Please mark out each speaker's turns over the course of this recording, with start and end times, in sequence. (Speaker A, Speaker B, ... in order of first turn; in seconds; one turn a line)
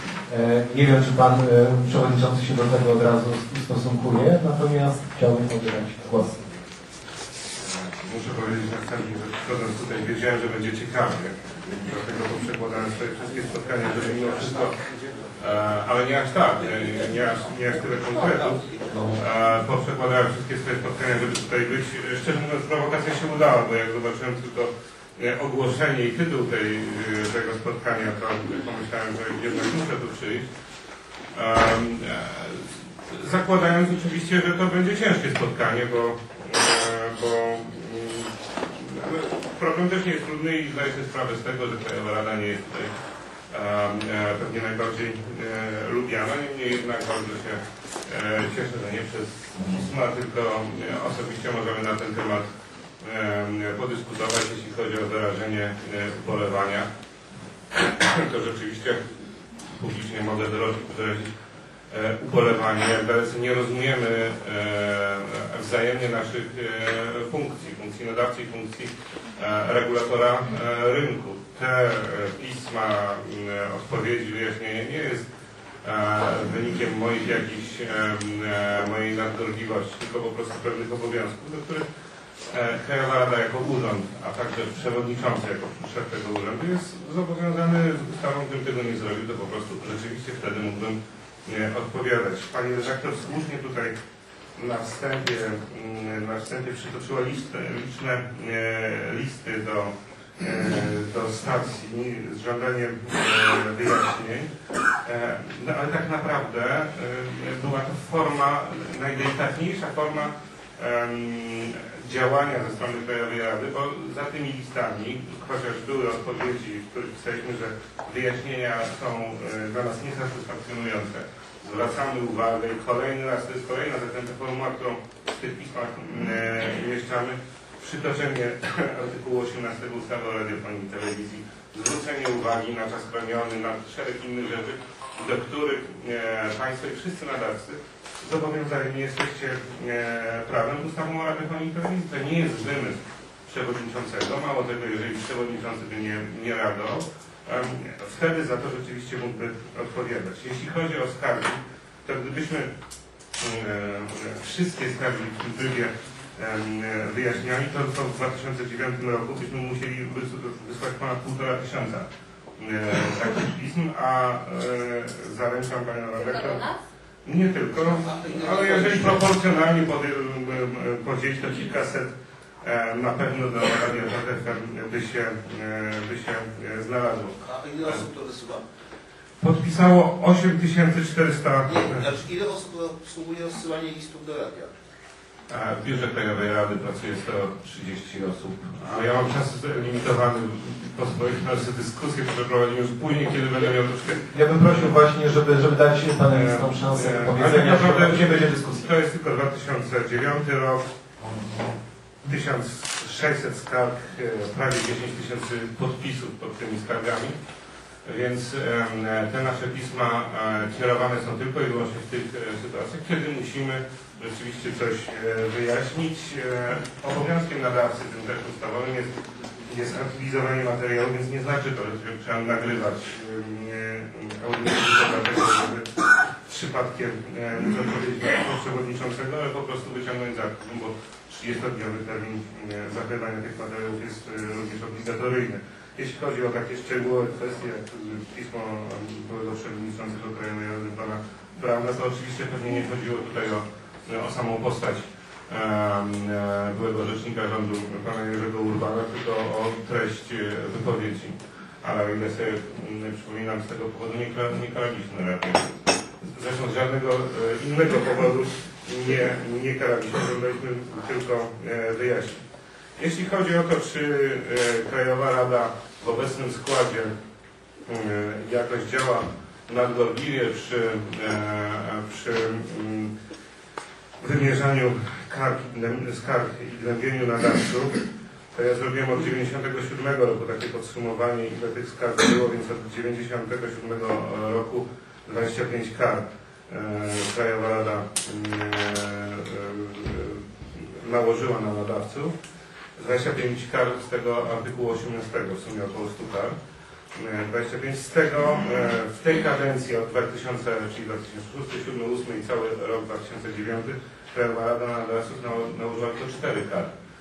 Speaker A: 0.3-6.5
Speaker B: 7.5-30.5
Speaker A: 18.9-19.2
Speaker B: 31.3-42.9
Speaker B: 43.5-52.4
Speaker B: 53.0-56.9
Speaker B: 57.7-59.0
Speaker B: 59.6-61.3
Speaker B: 61.9-75.2
Speaker B: 75.8-81.8
Speaker B: 82.5-93.9
Speaker B: 94.6-104.5
Speaker B: 105.0-152.7
Speaker B: 153.4-162.1
Speaker B: 162.6-172.1
Speaker C: 168.3-168.9
Speaker B: 172.6-178.0
Speaker C: 177.5-178.6
Speaker B: 179.4-182.1
Speaker C: 181.7-184.7
Speaker B: 185.5-195.0
Speaker A: 194.3-198.8
Speaker B: 196.3-200.9
Speaker B: 202.2-207.3
Speaker B: 208.1-262.4
Speaker B: 263.0-267.1
Speaker B: 267.9-273.1
Speaker B: 274.2-292.3
Speaker B: 293.0-296.5
Speaker B: 297.1-306.9